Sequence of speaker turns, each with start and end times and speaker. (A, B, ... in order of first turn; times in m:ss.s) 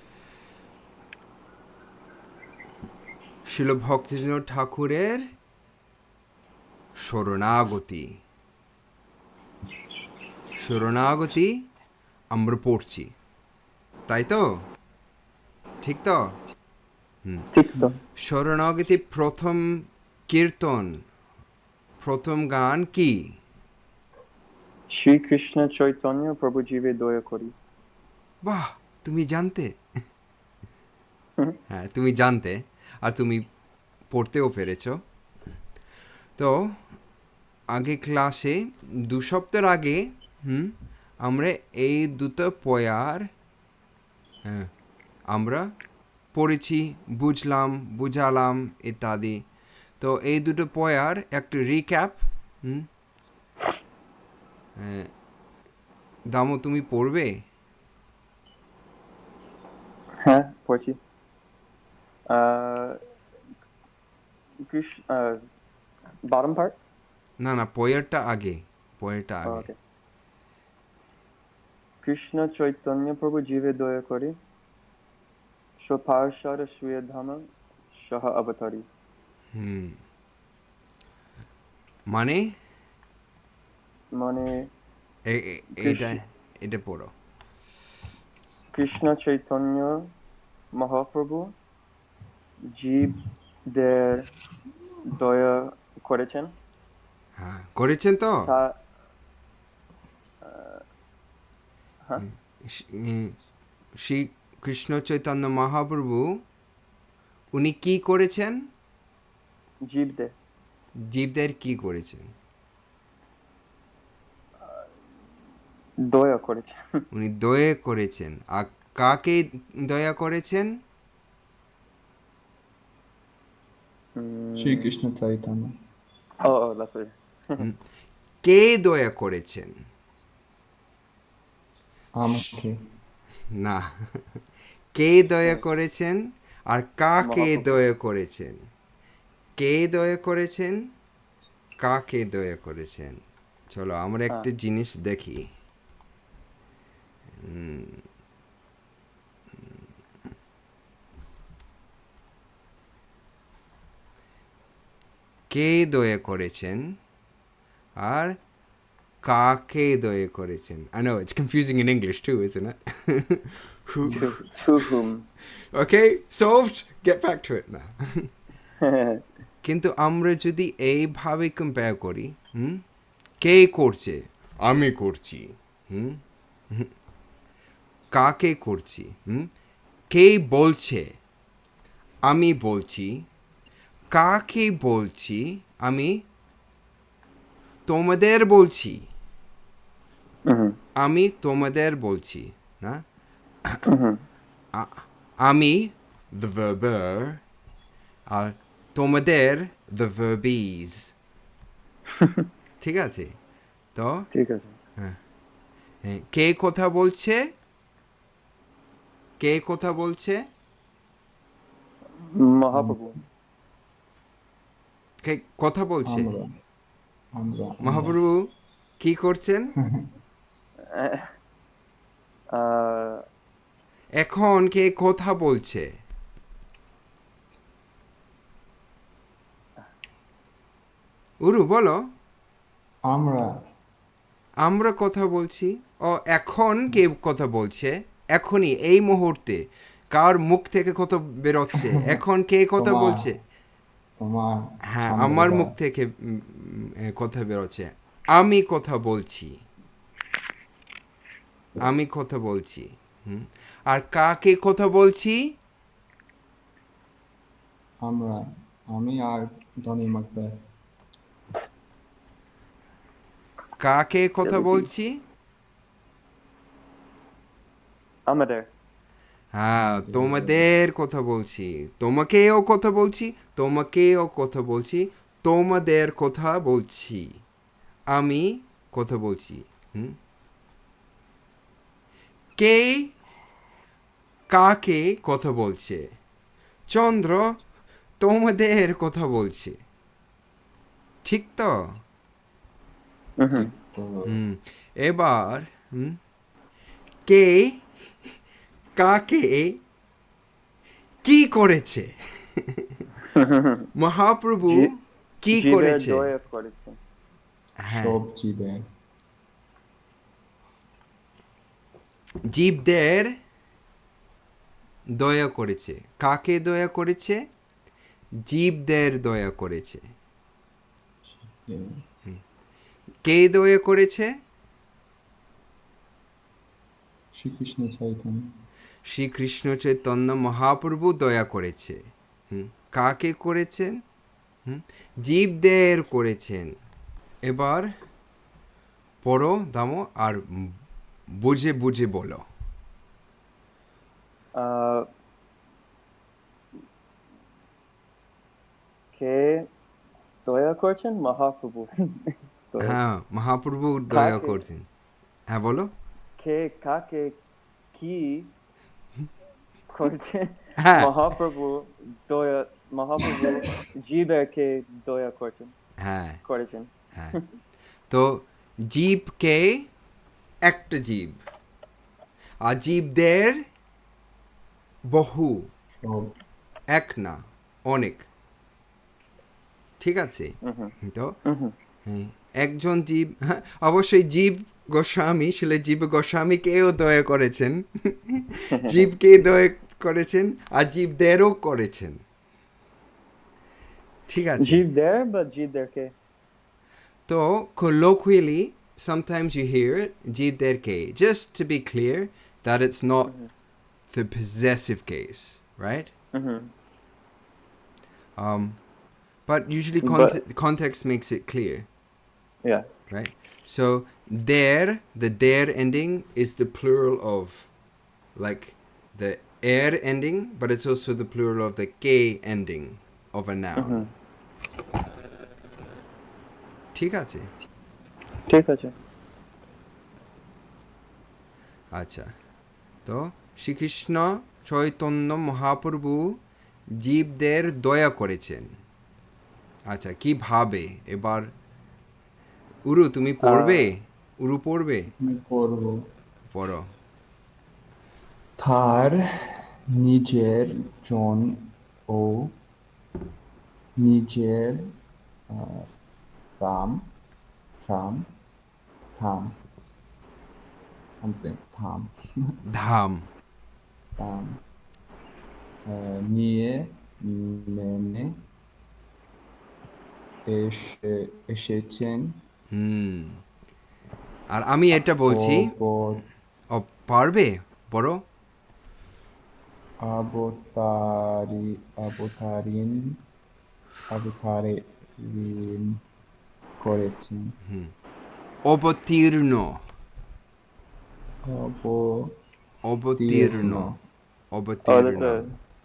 0:03.4-0:05.3 A
0:07.0-0:08.2 A
0:10.6-0:11.7 A
0:12.3-0:13.1 A
0:14.1-0:14.7 A
0:15.8-0:16.4 A
0:17.5-0:18.0 B
0:18.2-0:21.0 A
0:22.0-0:23.4 A
0:24.9-0:27.5 B
0:28.4-0:29.8 A
0:31.7-0:33.5 A
0:34.1-0:35.0 A
0:36.4-0:36.8 A
0:37.7-0:43.3 A
0:44.4-0:44.7 A
0:45.3-0:45.7 A
0:46.3-0:49.5 A
0:50.0-0:52.9 A
0:54.8-0:55.1 A
0:56.3-0:57.4 A
1:00.2-1:01.0 B
1:02.3-1:03.0 B
1:04.6-1:05.4 B
1:06.2-1:06.8 B
1:07.4-1:09.7 A
1:09.4-1:09.8 B
1:12.0-1:14.4 B
1:15.8-1:18.9 B
1:19.6-1:20.0 A
1:22.1-1:22.6 A
1:24.1-1:24.7 B
1:25.3-1:27.1 A
1:25.8-1:26.2 B
1:28.7-1:30.1 B
1:30.7-1:31.6 B
1:32.7-1:34.3 B
1:35.1-1:36.6 B
1:37.4-1:38.5 A
1:38.5-1:38.8 B
1:40.4-1:40.8 B
1:42.2-1:43.4 A
1:44.0-1:46.4 A
1:47.5-1:48.7 A
1:49.8-1:50.3 B
1:51.0-1:52.3 A
1:56.0-1:57.1 B
1:57.1-2:00.8 A
2:04.2-2:04.9 B
2:04.6-2:05.8 C
2:06.4-2:07.6 B
2:08.4-2:09.8 A
2:12.2-2:12.8 C
2:13.5-2:14.2 A
2:14.9-2:18.6 A
2:17.2-2:17.8 B
2:19.6-2:20.9 A
2:21.8-2:25.5 A
2:27.4-2:28.0 A
2:35.5-2:37.0 A
2:38.0-2:38.4 A
2:39.2-2:44.9 A
2:44.1-2:45.3 B
2:45.7-2:48.3 A
2:48.8-2:49.2 B
2:49.6-2:52.8 A
2:53.4-2:56.9 A
2:58.1-2:59.5 A
3:00.1-3:01.1 A
3:02.3-3:03.3 A
3:04.1-3:06.3 A
3:07.9-3:09.1 A
3:10.5-3:10.8 B
3:11.0-3:13.0 A
3:13.9-3:14.2 B
3:14.7-3:17.4 A
3:18.3-3:21.1 A
3:22.1-3:22.5 B
3:22.8-3:23.4 A
3:24.0-3:24.3 A
3:24.3-3:24.8 B
3:26.0-3:27.5 A
3:29.4-3:30.5 A
3:32.2-3:33.2 B
3:32.7-3:33.1 C
3:35.2-3:36.3 A
3:36.0-3:36.5 C
3:37.3-3:38.2 C
3:37.8-3:39.7 A
3:39.8-3:40.1 C
3:40.9-3:41.3 B
3:42.5-3:43.3 B
3:44.2-3:46.0 A
3:51.4-3:52.1 A
3:53.1-3:53.5 C
3:54.6-4:03.4 A
4:01.9-4:02.2 C
4:02.8-4:03.3 C
4:04.2-4:05.8 C
4:04.8-4:09.7 A
4:11.8-4:15.6 A
4:18.0-4:20.6 C
4:23.8-4:25.2 A
4:24.4-4:24.9 B
4:28.3-4:28.7 B
4:29.5-4:37.4 A
4:29.8-4:30.7 C
4:38.1-4:40.2 A
4:42.6-4:43.2 A
4:44.5-4:46.2 A
4:46.9-4:47.6 A
4:48.2-4:49.8 A
4:51.2-4:52.0 A
4:53.4-4:53.7 B
4:53.5-4:54.4 C
4:54.3-4:56.2 A
4:57.3-4:57.9 A
4:59.0-4:59.8 A
5:01.2-5:03.1 A
5:03.3-5:03.9 B
5:04.0-5:06.3 A
5:04.6-5:04.9 B
5:05.5-5:07.0 B
5:07.8-5:08.2 A
5:07.9-5:08.9 C
5:12.5-5:13.4 A
5:15.1-5:17.5 A
5:18.4-5:20.1 A
5:21.5-5:22.0 C
5:23.2-5:24.3 A
5:27.3-5:28.5 C
5:29.0-5:34.0 A
5:34.7-5:36.8 A
5:37.4-5:37.9 A
5:39.2-5:40.8 A
5:41.3-5:42.4 A
5:44.5-5:45.1 B
5:49.1-5:49.7 B
5:50.4-5:53.0 B
5:52.8-5:54.9 A
5:54.1-5:54.6 B
5:55.5-5:55.9 A
5:56.4-5:57.4 B
5:57.9-5:58.5 B
5:59.9-6:05.8 B
6:00.8-6:01.1 A
6:06.0-6:06.4 A
6:06.4-6:07.4 B
6:08.1-6:09.9 A
6:10.6-6:11.4 A
6:12.6-6:13.6 A
6:15.1-6:15.7 A
6:16.0-6:16.4 C
6:16.9-6:18.3 A
6:20.0-6:21.4 A
6:20.6-6:21.7 B
6:22.1-6:32.2 A
6:28.7-6:29.1 B
6:34.3-6:34.8 A
6:34.6-6:36.1 B
6:37.3-6:43.3 A
6:44.1-6:46.1 A
6:46.3-6:46.7 B
6:48.4-6:48.8 A
6:49.5-6:51.9 A
6:50.0-6:50.4 B
6:53.1-6:57.7 A
6:58.4-7:04.1 A
7:03.8-7:04.1 B
7:07.0-7:07.5 A
7:08.5-7:09.0 B
7:11.9-7:12.3 A
7:13.0-7:16.4 A
7:17.0-7:18.7 A
7:19.9-7:21.5 A
7:22.9-7:25.1 A
7:23.4-7:23.9 B
7:25.2-7:26.1 C
7:26.5-7:26.9 A
7:28.6-7:32.6 C
7:34.0-7:34.9 C
7:35.5-7:35.9 C
7:36.6-7:37.1 C
7:37.8-7:38.3 C
7:39.2-7:39.6 C
7:41.1-7:42.5 C
7:42.6-7:43.3 A
7:44.2-7:44.6 C
7:45.9-7:48.4 C
7:50.5-7:52.4 C
7:52.7-7:53.4 A
7:54.5-7:55.8 A
7:55.3-7:56.3 C
7:56.7-7:58.3 A
8:00.0-8:03.2 C
8:04.1-8:06.0 C
8:06.8-8:07.6 C
8:07.6-8:07.9 A
8:08.7-8:09.8 A
8:11.4-8:12.4 C
8:12.8-8:13.9 A
8:13.2-8:14.0 C
8:14.5-8:15.4 A
8:14.9-8:15.5 B
8:15.1-8:15.4 C